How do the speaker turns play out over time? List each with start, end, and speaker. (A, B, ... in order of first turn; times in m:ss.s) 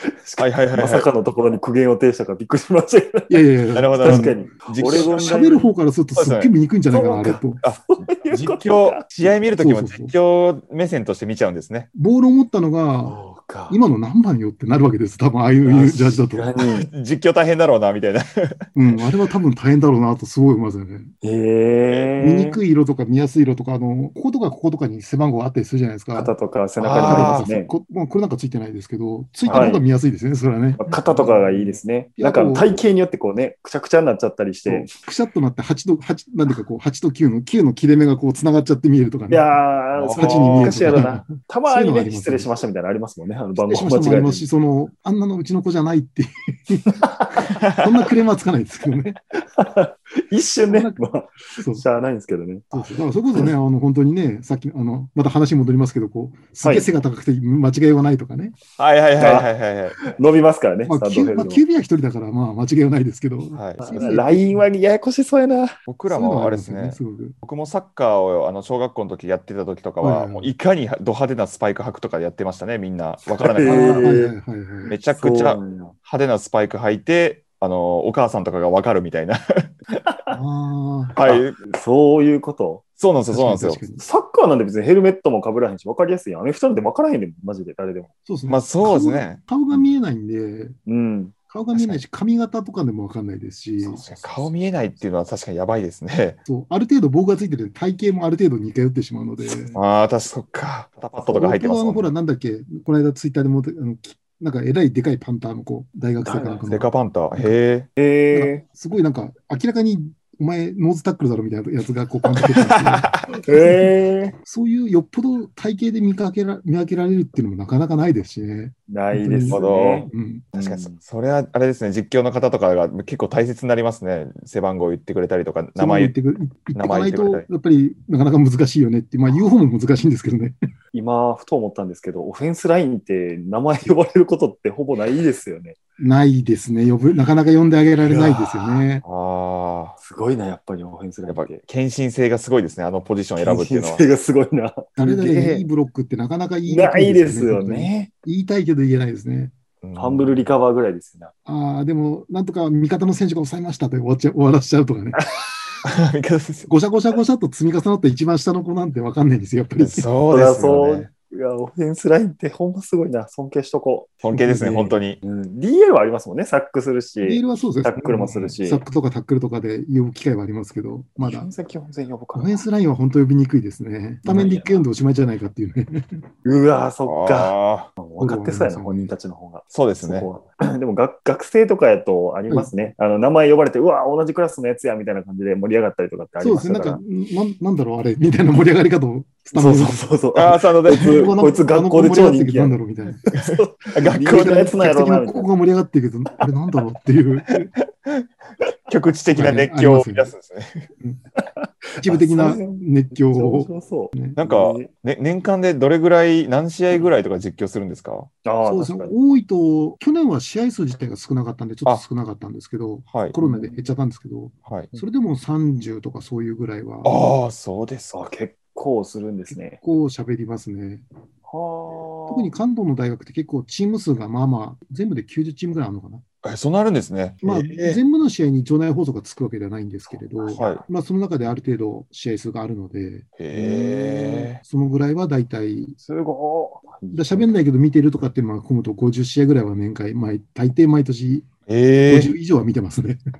0:00.2-0:03.4 A
0:00.4-0:01.1 B
0:03.3-0:07.6 C
0:03.7-0:05.3 B
0:04.0-0:05.7 A
0:06.1-0:06.5 B
0:06.9-0:09.4 A
0:07.6-0:11.9 B
0:09.6-0:10.1 C
0:11.9-0:13.2 C
0:13.0-0:13.8 A
0:13.7-0:16.5 C
0:15.6-0:16.9 A
0:16.6-0:18.7 B
0:18.7-0:21.1 C
0:21.2-0:22.6 A
0:21.9-0:22.1 B
0:22.2-0:26.3 C
0:26.1-0:27.7 A
0:26.8-0:27.4 B
0:27.0-0:30.8 C
0:29.5-0:29.8 A
0:30.8-0:34.9 A
0:30.9-0:31.4 B
0:32.2-0:32.8 C
0:34.6-0:39.5 C
0:39.3-0:44.4 A
0:40.0-0:41.0 B
0:40.2-0:42.5 C
0:43.6-0:46.9 C
0:47.0-0:47.5 A
0:47.6-0:49.2 C
0:49.5-0:53.5 A
0:50.7-0:51.0 C
0:51.6-0:51.8 C
0:52.7-0:58.6 C
0:56.6-0:56.9 A
0:58.7-1:00.0 B
0:59.2-0:59.5 A
1:00.0-1:01.6 A
1:00.8-1:04.7 C
1:03.5-1:04.2 B
1:03.8-1:05.7 A
1:05.8-1:14.0 B
1:06.1-1:07.4 C
1:10.0-1:10.5 C
1:13.3-1:14.3 A
1:13.6-1:14.9 C
1:14.9-1:19.7 B
1:15.1-1:15.9 A
1:20.3-1:21.1 C
1:21.2-1:21.6 B
1:21.2-1:22.8 A
1:23.0-1:23.8 B
1:23.3-1:24.0 C
1:24.0-1:28.1 A
1:28.2-1:30.8 C
1:28.5-1:29.8 B
1:30.9-1:31.3 A
1:31.5-1:34.0 C
1:31.7-1:32.0 B
1:33.8-1:36.4 B
1:33.9-1:34.5 A
1:36.5-1:39.8 C
1:39.7-1:42.1 B
1:41.2-1:47.5 C
1:46.2-1:46.6 A
1:46.6-1:47.9 B
1:48.0-1:48.6 A
1:48.3-1:53.2 C
1:52.3-1:53.2 B
1:53.3-1:54.3 A
1:54.4-2:00.4 C
1:58.9-2:01.0 A
1:59.5-2:06.1 B
2:05.8-2:10.5 C
2:06.7-2:07.5 B
2:10.9-2:15.8 A
2:16.0-2:19.0 C
2:18.0-2:18.9 A
2:19.0-2:20.0 B
2:20.0-2:21.6 A
2:21.2-2:24.1 B
2:23.4-2:25.6 A
2:25.0-2:29.5 C
2:26.7-2:28.1 A
2:29.8-2:30.5 B
2:30.0-2:31.3 A
2:31.4-2:35.2 C
2:35.2-2:35.4 A
2:35.9-2:36.7 B
2:36.7-2:40.1 C
2:39.8-2:41.1 B
2:40.3-2:48.8 A
2:44.2-2:45.2 B
2:47.2-2:51.5 C
2:51.2-2:52.6 A
2:52.3-2:56.2 C
2:54.2-2:54.8 A
2:56.4-3:07.0 A
2:57.0-2:57.9 B
2:58.2-2:59.1 C
2:59.7-3:00.3 B
3:06.4-3:10.1 C
3:09.5-3:15.5 A
3:10.3-3:11.3 B
3:10.8-3:13.2 C
3:13.4-3:14.6 B
3:14.3-3:17.7 C
3:17.6-3:18.3 B
3:18.9-3:20.7 B
3:19.3-3:20.3 C
3:21.4-3:24.9 A
3:22.0-3:24.4 C
3:24.4-3:28.3 B
3:28.4-3:29.2 A
3:28.6-3:37.2 C
3:33.1-3:33.4 B
3:33.4-3:33.8 A
3:34.6-3:34.9 B
3:37.0-3:38.2 B
3:38.1-3:39.8 A
3:39.5-3:41.0 C
3:41.5-3:42.5 A
3:42.2-3:46.2 C
3:46.4-3:48.0 B
3:47.4-3:53.3 C
3:50.1-3:50.8 A
3:50.6-3:50.8 B
3:53.4-3:54.6 B
3:53.5-3:54.5 A
3:54.6-3:56.0 C
3:56.0-3:57.5 A
3:57.1-4:01.5 C
4:01.7-4:02.3 B
4:02.1-4:03.2 C